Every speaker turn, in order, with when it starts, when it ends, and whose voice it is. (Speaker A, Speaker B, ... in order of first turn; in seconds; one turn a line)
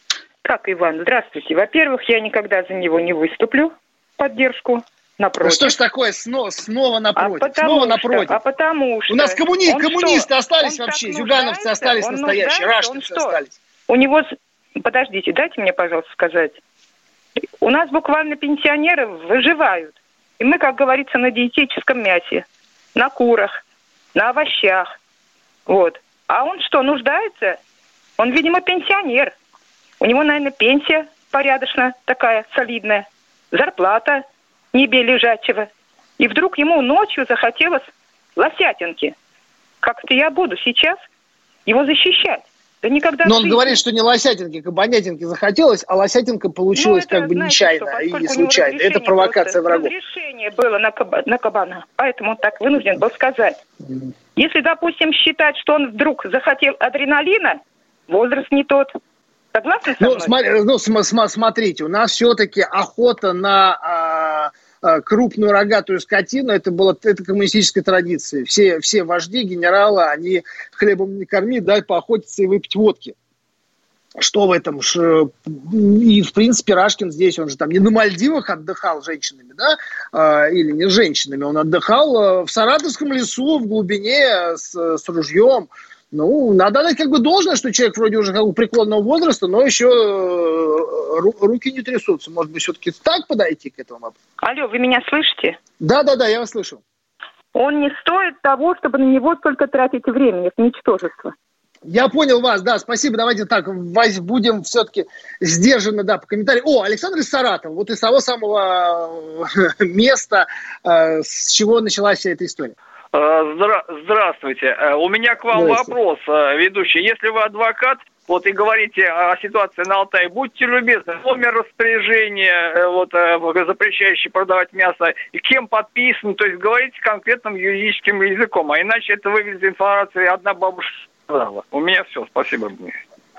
Speaker A: 0.4-5.8
Speaker B: 5.4-8.3
Speaker A: 7.2-16.6
Speaker B: 9.1-13.5
Speaker A: 17.6-23.6
Speaker A: 24.1-24.9
Speaker A: 25.7-27.6
Speaker A: 28.2-29.3
Speaker A: 30.0-39.1
Speaker A: 39.8-41.0
Speaker A: 41.6-43.8
Speaker B: 43.2-49.9
Speaker A: 46.7-53.5
Speaker A: 54.4-58.9
Speaker A: 59.5-60.4
Speaker B: 60.0-73.1
Speaker B: 74.2-94.1
Speaker A: 94.4-95.6
Speaker B: 95.8-96.8
Speaker A: 97.5-101.3
Speaker B: 101.9-112.7
Speaker C: 113.1-133.0
Speaker B: 115.5-115.9